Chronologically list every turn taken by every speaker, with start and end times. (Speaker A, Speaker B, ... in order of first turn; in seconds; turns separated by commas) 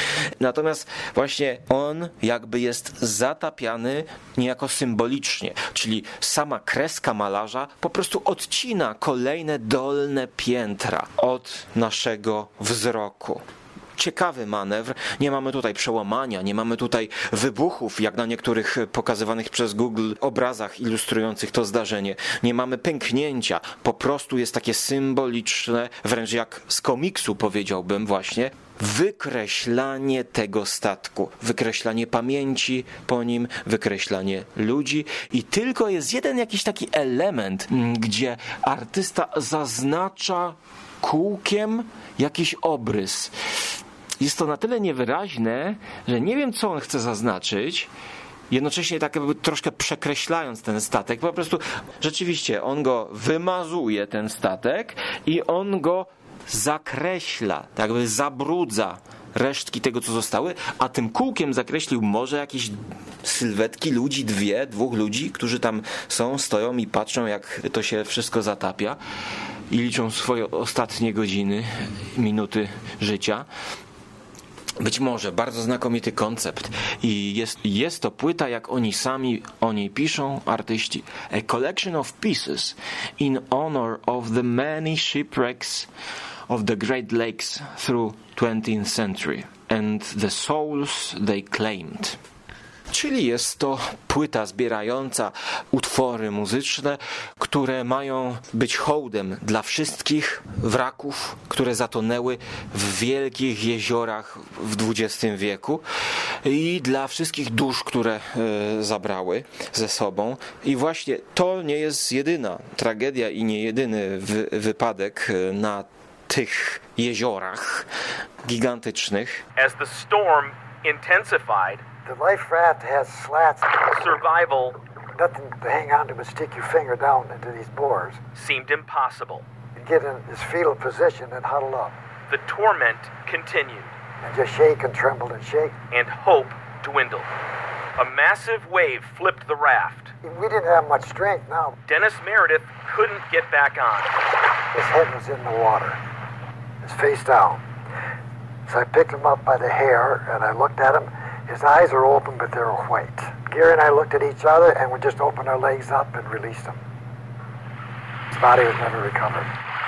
Speaker A: 0.4-13.4, Speaker A: 13.9-43.3, Speaker A: 44.2-47.9, Speaker A: 48.5-69.0, Speaker A: 69.7-73.5, Speaker A: 74.8-85.9, Speaker A: 86.5-92.2, Speaker A: 92.9-105.8, Speaker A: 106.4-117.9, Speaker A: 118.4-119.4, Speaker B: 119.5-121.8, Speaker C: 122.0-124.2, Speaker B: 123.8-124.8, Speaker C: 125.2-128.2, Speaker B: 128.3-129.4, Speaker C: 129.8-131.9, Speaker B: 132.3-133.9, Speaker C: 134.2-135.8, Speaker B: 135.9-137.3, Speaker B: 138.0-140.1, Speaker C: 140.2-141.8, Speaker B: 141.9-144.2, Speaker C: 144.7-146.0, Speaker C: 146.8-147.6, Speaker C: 148.7-156.8, Speaker C: 158.3-159.5